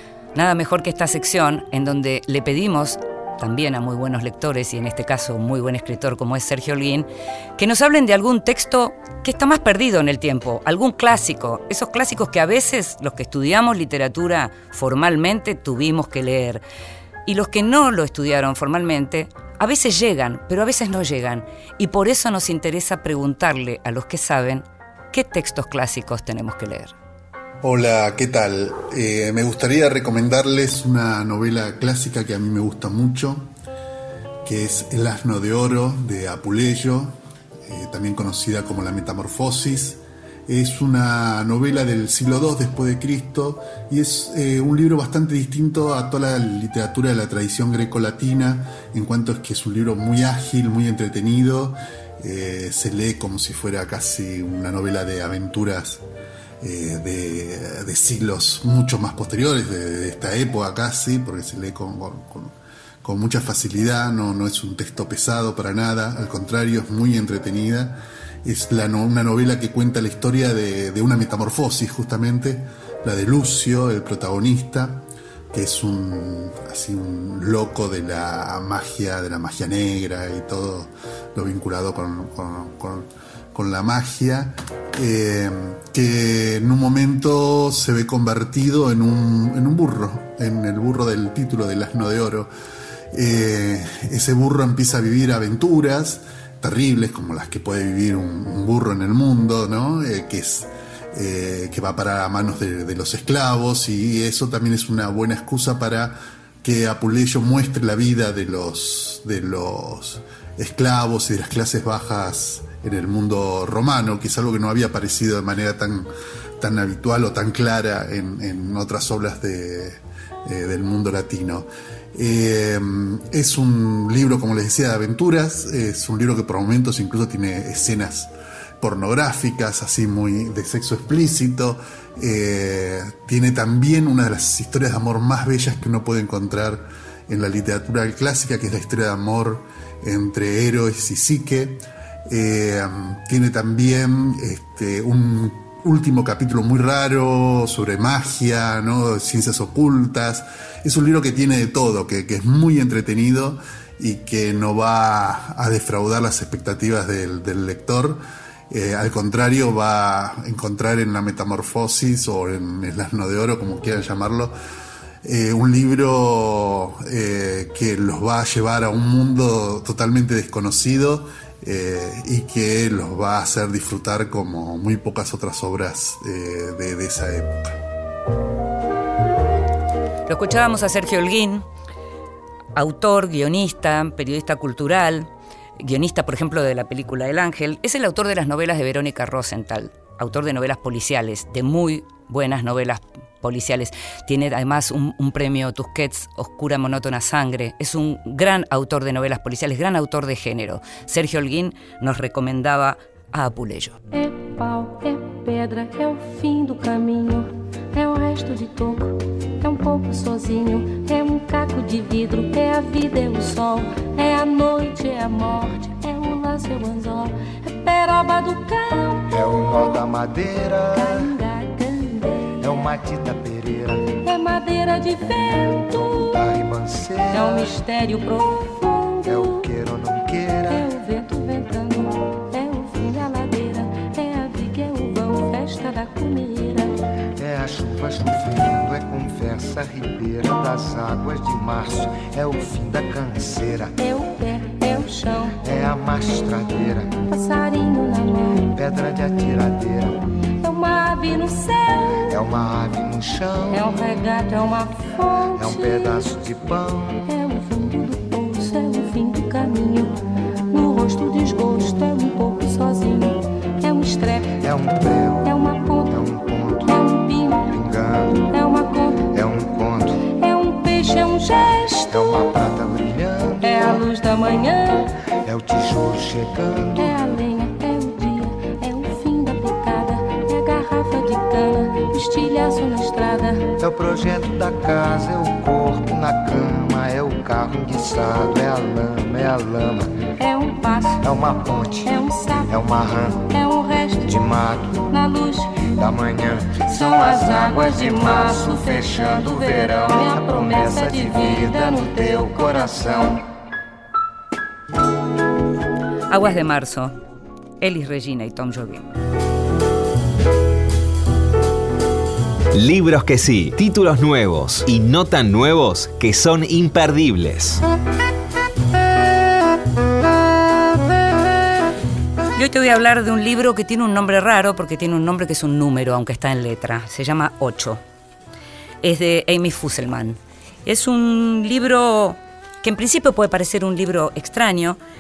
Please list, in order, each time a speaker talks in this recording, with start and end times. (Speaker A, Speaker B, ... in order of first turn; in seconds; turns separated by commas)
Speaker A: 0.3-16.6, Speaker A: 17.2-26.9, Speaker B: 27.6-33.5, Speaker B: 34.4-56.0, Speaker B: 56.6-92.5, Speaker B: 93.1-116.1, Speaker B: 116.6-164.5, Speaker B: 165.2-177.7, Speaker A: 180.3-181.6, Speaker A: 182.7-204.0, Speaker C: 204.1-219.4, Speaker D: 219.3-221.3, Speaker C: 220.9-222.8, Speaker D: 222.6-224.1, Speaker C: 224.2-226.2, Speaker D: 225.8-227.7, Speaker C: 227.3-229.7, Speaker D: 229.2-230.9, Speaker C: 230.7-236.9, Speaker D: 237.4-243.9, Speaker C: 244.0-245.6, Speaker D: 245.6-247.2, Speaker C: 247.2-248.7, Speaker D: 248.7-250.2, Speaker C: 250.6-252.2, Speaker D: 252.3-253.8, Speaker C: 253.7-256.3, Speaker D: 255.6-257.2, Speaker C: 257.2-260.1, Speaker C: 260.7-264.6, Speaker D: 264.6-265.5, Speaker C: 265.4-266.1, Speaker D: 266.1-266.9, Speaker C: 266.8-267.7, Speaker D: 267.7-268.4, Speaker C: 268.5-269.3, Speaker D: 269.3-270.2, Speaker C: 270.2-272.1, Speaker D: 272.0-274.0, Speaker C: 273.6-275.1, Speaker D: 275.4-277.2, Speaker C: 276.9-283.7, Speaker D: 283.8-290.1, Speaker C: 290.4-291.2, Speaker D: 291.2-292.1, Speaker C: 292.0-294.3, Speaker D: 292.6-293.4, Speaker D: 294.2-295.0, Speaker C: 295.1-295.8, Speaker D: 296.0-303.3, Speaker C: 296.8-303.4, Speaker A: 306.3-307.1, Speaker A: 307.8-309.1, Speaker E: 312.7-317.8, Speaker A: 322.6-328.0, Speaker A: 329.0-335.0